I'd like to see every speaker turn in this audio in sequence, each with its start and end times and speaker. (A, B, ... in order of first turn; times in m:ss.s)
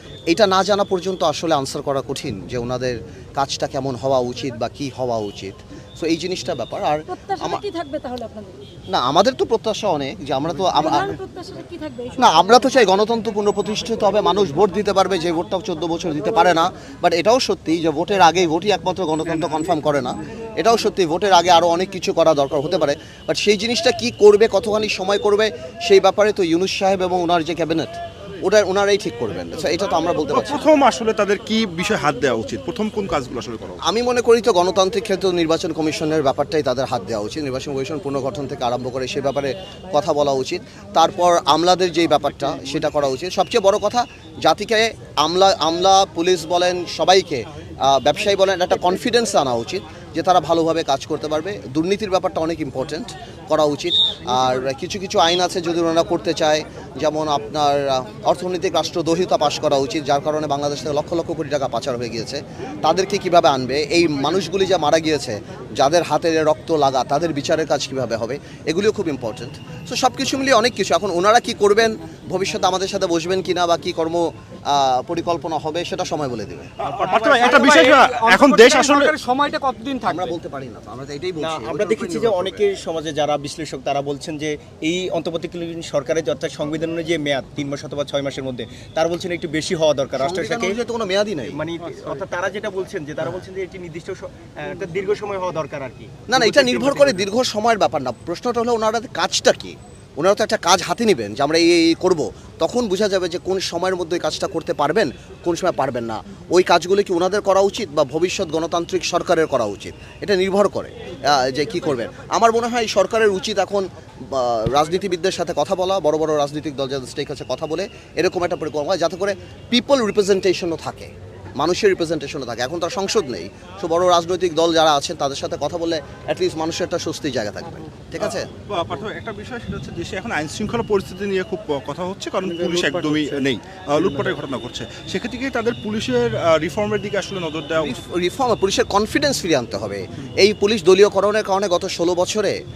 0:00.3-0:07.6 A
0:07.2-0:08.7 B
0:08.9-0:11.2 A
0:11.1-0:12.2 B
0:12.2-0:30.6 A
0:30.3-0:33.8 C
0:33.8-1:16.7 A
1:16.8-1:19.2 C
1:16.9-1:17.4 D
1:17.3-1:20.3 E
1:20.0-1:22.6 A
1:21.4-1:30.8 D
1:30.2-1:31.6 A
1:31.5-1:37.2 D
1:36.3-2:08.5 A
2:08.2-2:18.0 C
2:12.5-2:13.4 E
2:17.8-2:22.6 A